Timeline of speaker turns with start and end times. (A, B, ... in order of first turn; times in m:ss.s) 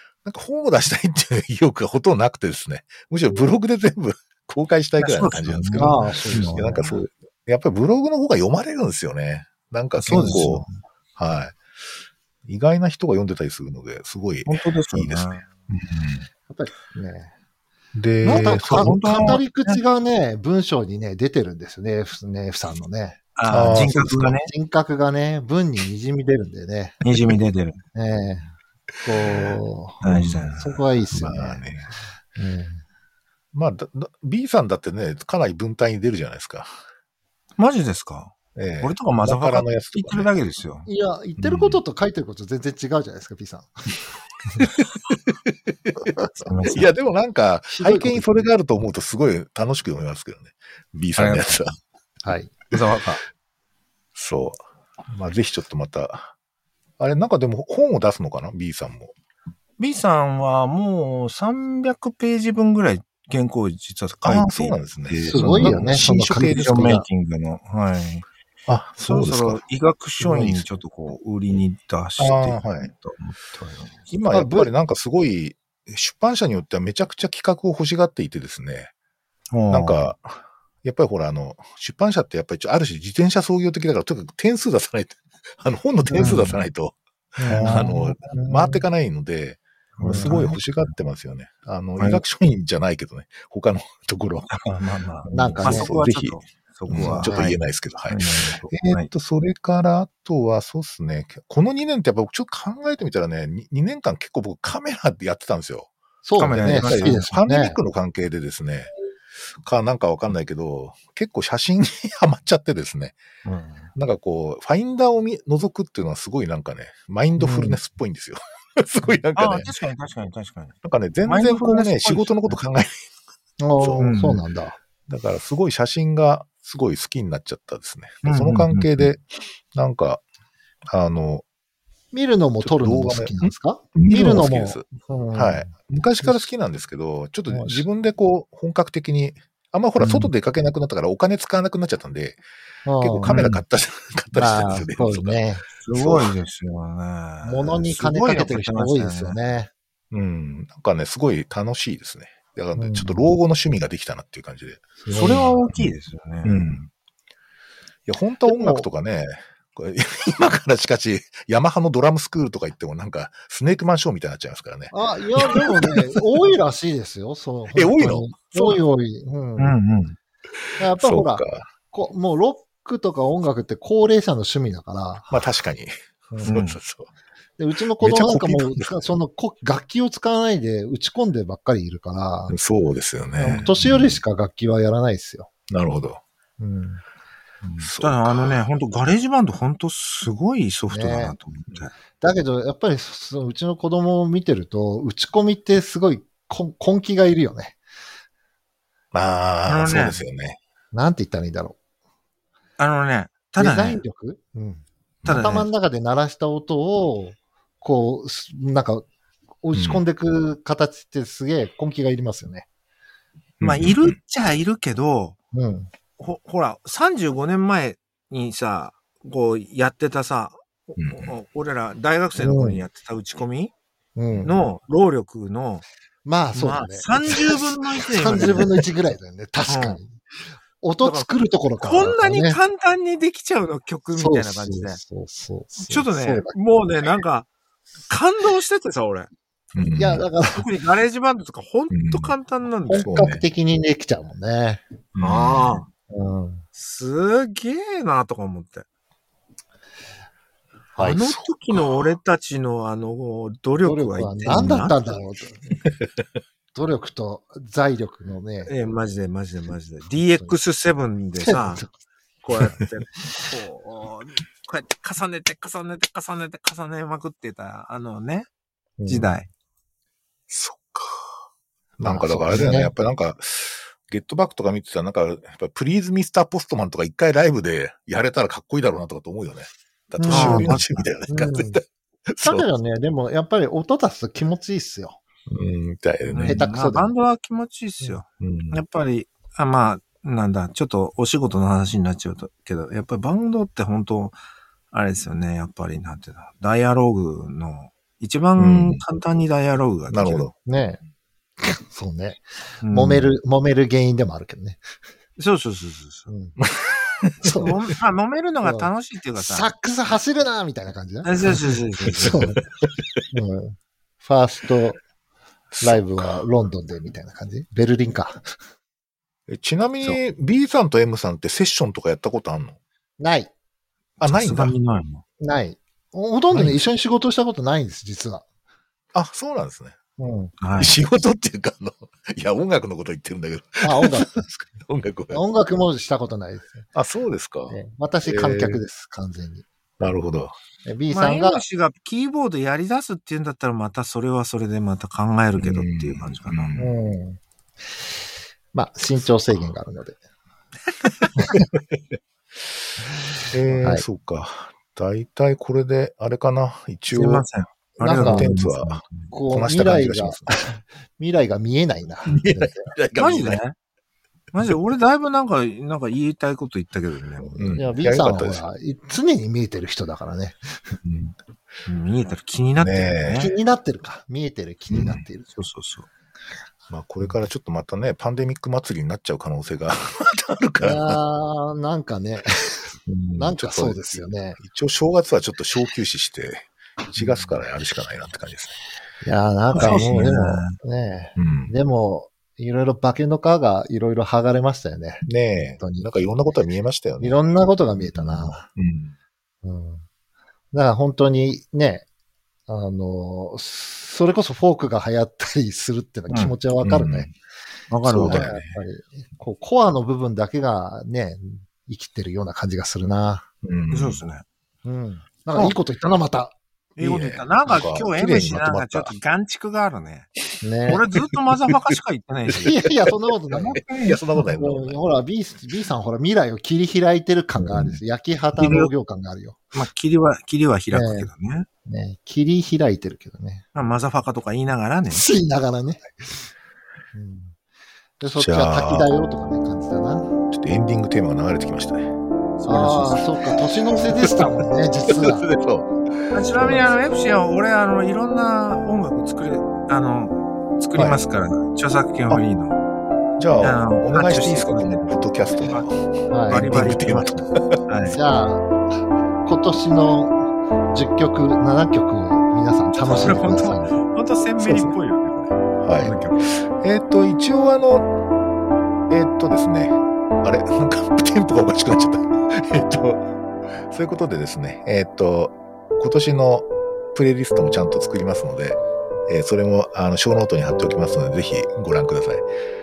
0:00.2-0:10.6 A
0:05.0-0:06.8 B
0:05.8-0:07.0 C
0:10.0-0:10.7 C
0:10.1-0:10.6 B
0:11.2-0:11.6 A
0:12.4-0:16.3 A
0:14.5-0:15.4 B
0:16.5-0:17.3 C
0:18.0-0:19.4 A
0:18.2-0:19.8 B
0:18.2-0:24.0 C
0:23.4-0:24.5 B
0:23.5-0:24.4 A
0:24.5-0:27.0 C
0:27.0-0:27.8 B
0:27.9-0:28.5 C
0:29.0-0:30.0 C
0:29.3-0:30.6 A
0:30.0-0:30.8 B
0:30.6-0:31.8 C
0:31.1-0:31.9 A
0:32.4-0:32.8 C
0:33.5-0:36.7 A
0:37.6-0:40.9 B
0:38.6-0:40.3 A
0:40.9-0:43.7 C
0:41.4-0:41.8 A
0:46.4-0:46.9 B
0:46.7-0:51.7 A
0:47.7-0:48.4 C
0:51.2-0:51.6 B
0:52.2-0:52.6 C
0:52.7-0:53.2 B
0:54.2-0:56.3 A
0:57.0-0:59.1 A
0:59.8-1:08.2 B
1:04.2-1:06.6 A
1:05.3-1:07.1 C
1:08.7-1:09.6 A
1:09.0-1:14.0 B
1:10.2-1:10.6 A
1:12.2-1:12.9 A
1:14.1-1:18.9 A
1:14.3-1:14.7 C
1:19.5-1:20.0 B
1:19.7-1:34.6 A
1:26.1-1:26.5 C
1:26.2-1:26.6 B
1:27.4-1:28.8 C
1:27.5-1:27.8 B
1:30.0-1:30.9 B
1:30.0-1:30.4 C
1:34.5-1:39.1 B
1:35.2-1:45.9 A
1:35.3-1:36.0 C
1:36.9-1:37.5 C
1:46.2-1:47.8 C
1:46.4-1:47.3 B
1:46.5-1:48.9 A
1:49.6-1:53.2 A
1:54.0-1:59.7 A
1:57.4-1:57.8 C
1:59.4-2:00.8 B
2:00.8-2:03.0 A
2:01.3-2:02.6 B
2:03.6-2:04.8 C
2:03.8-2:04.2 A
2:04.0-2:04.4 B
2:05.1-2:10.2 A
2:08.2-2:09.1 B
2:10.9-2:11.4 A
2:12.1-2:15.7 C
2:12.6-2:22.4 A
2:17.5-2:17.8 C
2:20.0-2:20.3 B
2:22.9-2:23.6 C
2:23.0-2:25.4 A
2:23.2-2:23.6 B
2:24.3-2:25.6 C
2:25.8-2:29.4 B
2:25.9-2:26.3 A
2:27.4-2:29.7 C
2:30.1-2:34.9 A
2:32.8-2:33.3 C
2:35.0-2:35.5 C
2:35.1-2:36.6 B
2:36.4-2:36.9 A
2:38.1-2:46.2 A
2:38.4-2:38.9 C
2:44.9-2:49.8 C
2:47.7-2:48.8 A
2:49.6-2:50.2 B
2:50.8-2:55.5 C
2:51.0-2:51.7 A
2:55.3-2:55.9 A
2:56.3-2:56.6 C
2:56.4-2:56.8 B
2:56.5-2:57.1 A
2:57.6-3:02.6 C
2:58.0-2:58.9 A
3:02.5-3:04.2 A
3:03.4-3:05.5 C
3:03.5-3:03.7 B
3:05.7-3:06.2 A
3:06.6-3:07.0 C
3:07.6-3:11.9 B
3:07.8-3:08.6 A
3:10.9-3:11.4 C
3:12.2-3:17.8 C
3:19.1-3:20.6 A
3:19.7-3:20.2 B
3:20.9-3:21.8 C
3:22.8-3:24.0 B
3:23.6-3:29.1 C
3:25.2-3:25.6 A
3:25.3-3:25.7 B
3:29.6-3:32.7 C
3:29.7-3:30.0 A
3:33.6-3:34.2 A
3:33.6-3:35.4 B
3:35.5-3:35.9 C
3:36.2-3:43.7 B
3:41.0-3:41.3 A
3:42.4-3:42.8 C
3:44.2-3:44.5 C
3:44.4-3:45.8 B
3:46.2-3:50.2 C
3:46.5-3:48.8 B
3:49.7-3:50.0 B
3:50.8-3:52.6 C
3:51.0-3:51.3 B
3:51.8-3:55.0 B
3:54.1-3:56.6 C
3:55.9-3:57.5 B
3:58.1-3:59.3 B
3:59.8-4:00.2 A
4:00.0-4:00.7 C
4:00.5-4:03.2 B
4:01.9-4:02.4 A
4:02.9-4:04.8 C
4:03.0-4:03.4 A
4:05.2-4:05.8 A
4:05.2-4:05.9 B
4:06.1-4:06.6 C
4:06.8-4:08.8 B
4:11.0-4:11.3 C
4:11.0-4:15.0 B
4:11.7-4:12.1 A
4:13.9-4:15.8 C
4:16.7-4:18.7 C
4:18.7-4:21.8 B
4:21.4-4:21.9 C
4:22.4-4:28.5 B
4:29.0-4:29.3 C
4:29.1-4:29.5 B
4:30.5-4:31.3 A
4:32.0-4:42.7 A
4:32.0-4:32.9 C
4:40.2-4:40.8 C
4:40.3-4:41.0 B
4:41.3-4:41.8 C
4:42.4-4:45.2 C
4:45.5-4:46.6 A
4:46.3-4:54.4 B
4:46.4-4:47.1 C
4:48.4-4:48.8 A
4:54.9-5:00.5 B
4:58.6-4:59.0 A
5:00.1-5:00.5 A
5:00.6-5:01.0 C
5:01.6-5:04.8 C
5:02.8-5:03.3 B
5:05.4-5:06.3 B
5:06.3-5:06.6 C
5:06.6-5:07.5 A
5:07.4-5:07.7 C
5:07.6-5:09.7 B
5:08.6-5:12.6 C
5:11.2-5:12.5 B
5:12.8-5:13.2 A
5:13.3-5:15.0 C
5:15.7-5:16.4 A
5:15.8-5:18.5 C
5:19.5-5:22.8 A
5:23.2-5:23.5 C
5:24.2-5:25.2 B
5:24.2-5:24.7 A
5:25.4-5:28.4 C
5:26.5-5:26.8 A
5:29.1-5:30.0 A
5:30.2-5:30.6 C
5:30.6-5:31.0 B
5:30.8-5:35.4 A
5:33.8-5:34.4 C
5:35.3-5:36.9 C
5:36.9-5:38.8 A
5:37.7-5:39.7 C
5:40.0-5:40.6 A
5:40.8-5:41.6 C
5:41.1-5:46.8 B
5:45.6-5:47.0 A
5:46.8-5:47.4 C
5:48.7-5:50.2 C
5:51.5-5:52.0 A
5:53.5-5:57.5 A
5:53.7-5:54.0 C
5:57.1-5:59.3 B
5:58.0-5:58.5 C
5:58.1-6:00.6 A
5:59.3-6:02.9 C
6:02.3-6:03.6 A
6:03.2-6:03.8 B
6:04.5-6:07.8 B
6:07.4-6:08.6 A
6:07.7-6:10.6 C
6:11.0-6:11.3 A
6:11.9-6:13.5 B
6:12.8-6:13.5 A
6:13.3-6:15.5 C
6:14.9-6:15.2 A
6:15.6-6:16.1 B
6:16.9-6:21.2 A
6:20.8-6:24.6 C
6:23.1-6:24.1 A
6:24.6-6:28.8 A
6:27.2-6:27.6 C
6:29.2-6:36.1 C
6:29.7-6:30.3 A
6:29.7-6:30.8 B
6:31.4-6:31.7 A
6:35.2-6:37.4 A
6:37.2-6:38.7 C
6:38.1-6:39.1 A
6:39.6-6:40.0 C
6:40.7-6:42.1 C
6:42.7-6:47.3 C
6:46.3-6:46.6 B
6:46.8-6:47.3 A
6:47.9-6:48.5 B
6:48.0-6:48.8 A
6:48.2-6:53.5 C
6:53.6-6:54.2 A
6:53.9-6:54.4 B
6:54.8-6:56.6 C
6:57.0-7:00.3 B
6:57.0-6:59.1 A
7:00.6-7:01.0 C
7:00.9-7:02.7 B
7:02.6-7:03.9 C
7:03.5-7:04.2 B
7:03.7-7:05.0 A
7:04.5-7:09.6 C
7:07.7-7:08.0 A
7:08.6-7:08.9 B
7:09.7-7:11.7 B
7:10.9-7:11.3 C
7:11.9-7:13.6 C
7:13.8-7:15.2 B
7:15.1-7:16.4 C
7:17.1-7:17.6 C
7:18.2-7:20.3 C
7:18.4-7:19.1 A
7:20.5-7:22.1 A
7:22.6-7:23.2 B
7:22.7-7:25.5 C
7:24.1-7:24.4 A
7:25.1-7:26.9 A
7:26.3-7:32.8 B
7:33.4-7:37.8 A
7:33.6-7:35.9 B
7:36.3-7:36.7 C
7:36.5-7:38.2 B
7:38.1-7:38.7 C
7:39.4-7:44.0 C
7:43.0-7:46.4 B
7:44.6-7:44.9 A
7:45.8-7:48.1 A
7:49.1-7:53.3 A
7:53.9-8:02.4 A